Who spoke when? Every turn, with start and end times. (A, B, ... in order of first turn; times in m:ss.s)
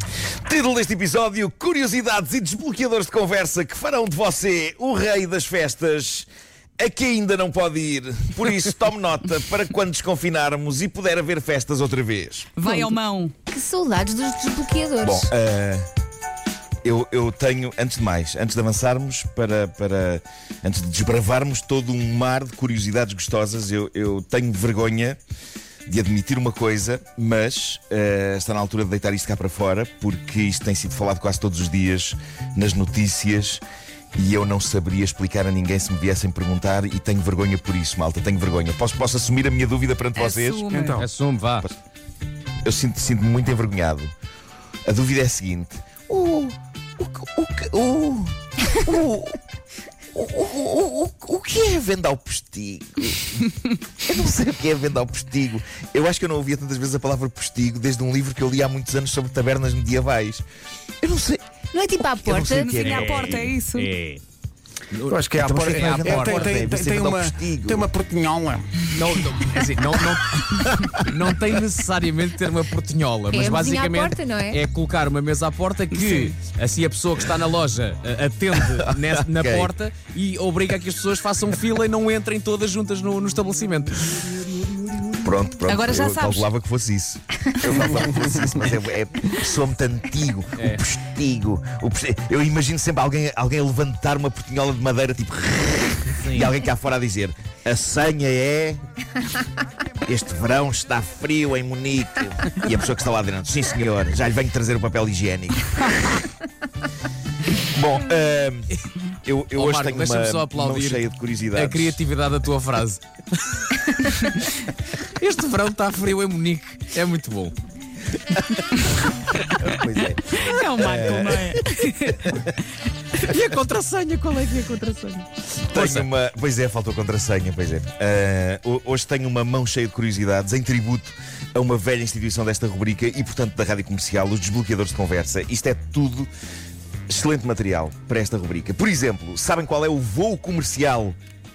0:00.4-0:06.3 A
0:06.8-0:12.5 A
0:12.6-0:13.3 B
0:12.6-0:12.9 C
0:13.5-0:15.3 C
0:15.0-0:15.9 A
0:16.8-0:25.2 A
0:25.9-0:33.6 A
0:34.2-0:40.7 A
0:40.2-0:41.0 B
0:40.7-0:41.1 D
0:41.0-0:41.6 E
0:42.6-0:44.1 A
0:44.9-0:49.4 A
0:50.1-1:00.4 A
1:01.0-1:01.4 A
1:01.7-1:02.6 C
1:02.2-1:03.4 A
1:02.5-1:03.9 B
1:02.6-1:04.2 E
1:04.9-1:06.4 E
1:05.1-1:08.9 D
1:05.4-1:07.9 A
1:08.9-1:25.1 E
1:10.6-1:10.9 A
1:13.3-1:14.6 C
1:18.7-1:19.7 A
1:25.2-1:38.8 A
1:25.6-1:26.4 B
1:36.2-1:36.5 E
1:40.1-1:46.3 A
1:47.6-1:48.7 A
1:49.2-1:52.0 A
1:49.6-1:53.0 E
1:53.6-1:54.5 E
1:55.2-1:57.5 E
1:58.3-1:58.6 A
1:59.5-2:02.5 A
2:00.4-2:02.2 B
2:03.2-2:06.1 E
2:05.7-2:16.3 A
2:17.1-2:21.2 A